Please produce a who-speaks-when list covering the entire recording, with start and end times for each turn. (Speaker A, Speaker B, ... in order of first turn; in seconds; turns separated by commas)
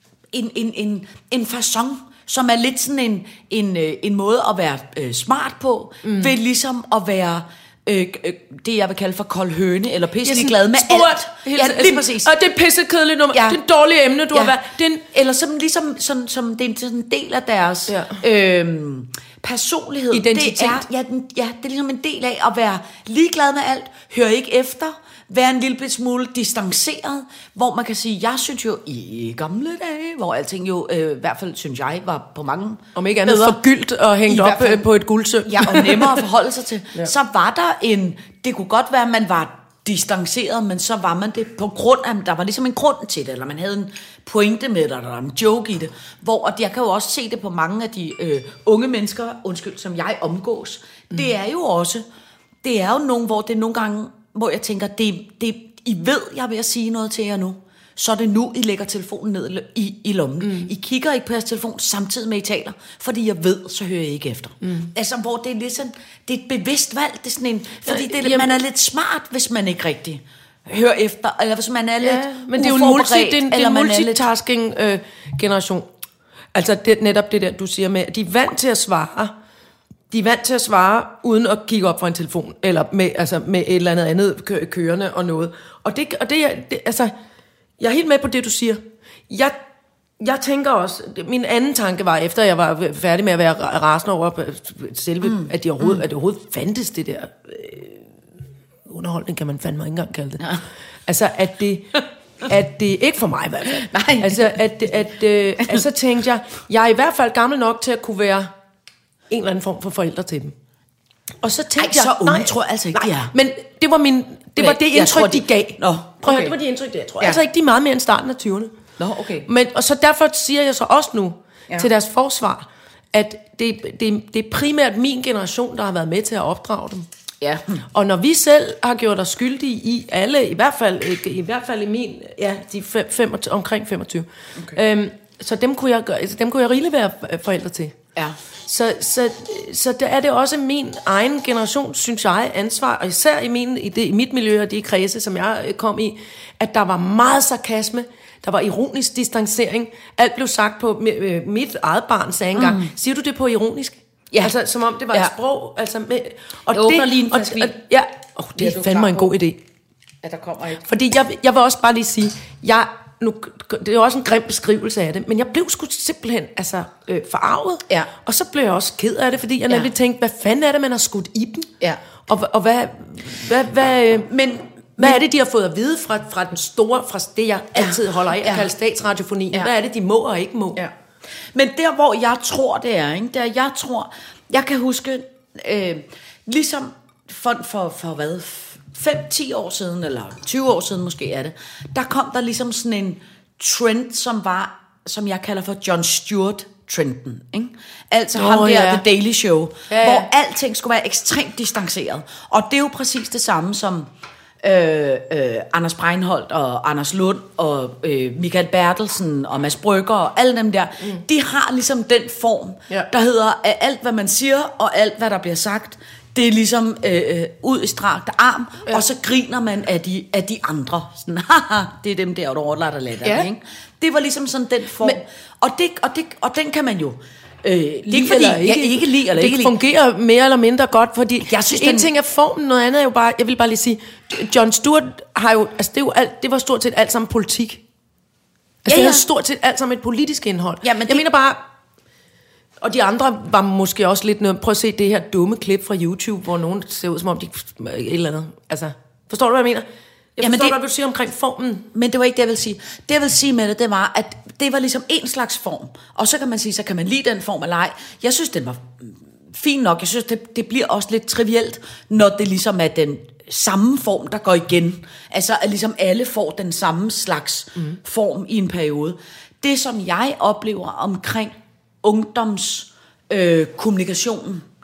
Speaker A: 0.3-12.3, Speaker B: 6.0-6.3, Speaker B: 10.2-15.1, Speaker A: 13.3-13.6, Speaker A: 15.1-33.6, Speaker B: 17.9-18.2, Speaker B: 20.1-20.8, Speaker B: 33.0-36.3, Speaker A: 34.3-34.9, Speaker A: 35.5-52.0, Speaker A: 52.6-74.3, Speaker B: 60.4-60.7, Speaker B: 67.9-68.6, Speaker B: 72.0-75.9, Speaker B: 76.5-79.3, Speaker B: 80.1-87.1, Speaker B: 87.8-89.6, Speaker B: 90.2-98.1, Speaker A: 95.4-96.0, Speaker B: 98.9-100.5, Speaker B: 101.1-108.5, Speaker A: 103.7-104.6, Speaker B: 109.3-110.5, Speaker B: 111.4-118.7, Speaker A: 111.8-113.3, Speaker A: 114.6-116.5, Speaker A: 119.0-119.5, Speaker B: 119.5-127.1, Speaker A: 127.4-127.8, Speaker B: 127.9-138.0, Speaker B: 138.7-159.6, Speaker A: 152.6-152.9, Speaker A: 156.7-157.8, Speaker A: 158.6-159.3, Speaker A: 160.2-160.8, Speaker B: 160.8-171.7, Speaker B: 172.3-174.3, Speaker A: 174.3-175.2, Speaker B: 175.0-180.8, Speaker A: 177.8-178.7, Speaker A: 181.5-204.1, Speaker B: 198.3-199.0, Speaker B: 199.9-200.3, Speaker A: 204.6-229.8, Speaker B: 228.1-237.8, Speaker A: 231.4-232.1, Speaker B: 238.8-241.6, Speaker A: 238.9-239.2, Speaker A: 240.8-241.3, Speaker B: 242.8-249.9, Speaker B: 250.4-251.9, Speaker A: 250.4-250.8, Speaker A: 251.9-274.7